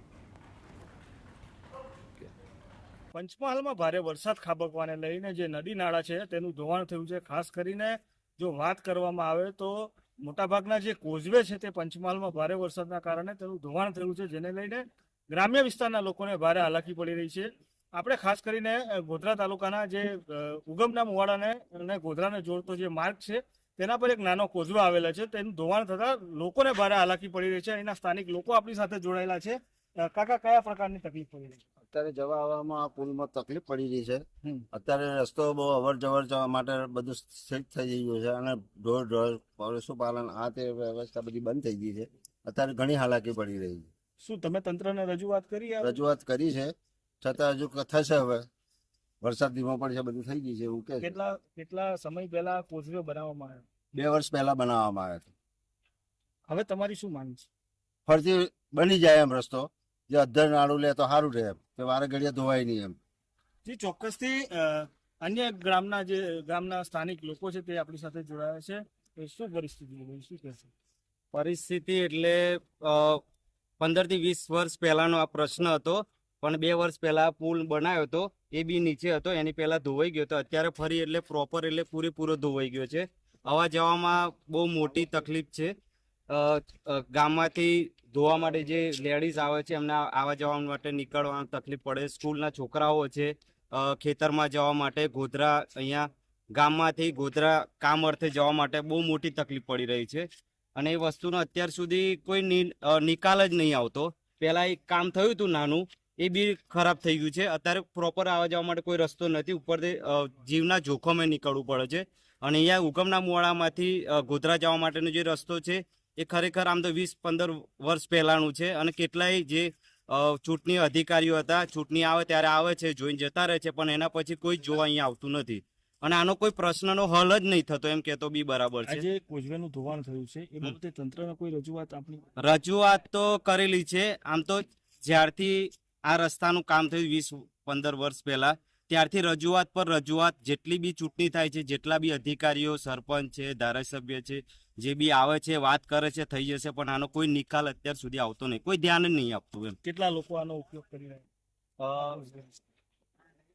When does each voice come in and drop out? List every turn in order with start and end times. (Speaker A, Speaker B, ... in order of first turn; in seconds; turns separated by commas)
Speaker A: 3.1-31.6, Speaker B: 31.9-43.9, Speaker A: 44.2-45.9, Speaker B: 45.8-48.5, Speaker B: 49.2-51.1, Speaker A: 51.0-53.6, Speaker B: 53.9-55.3, Speaker A: 56.5-57.5, Speaker B: 58.0-63.0, Speaker A: 63.6-70.7, Speaker C: 71.3-73.2, Speaker C: 73.8-85.7, Speaker C: 86.3-129.0, Speaker A: 128.9-132.2, Speaker C: 132.4-149.8, Speaker A: 149.8-151.2, Speaker C: 151.8-152.2, Speaker A: 152.0-152.5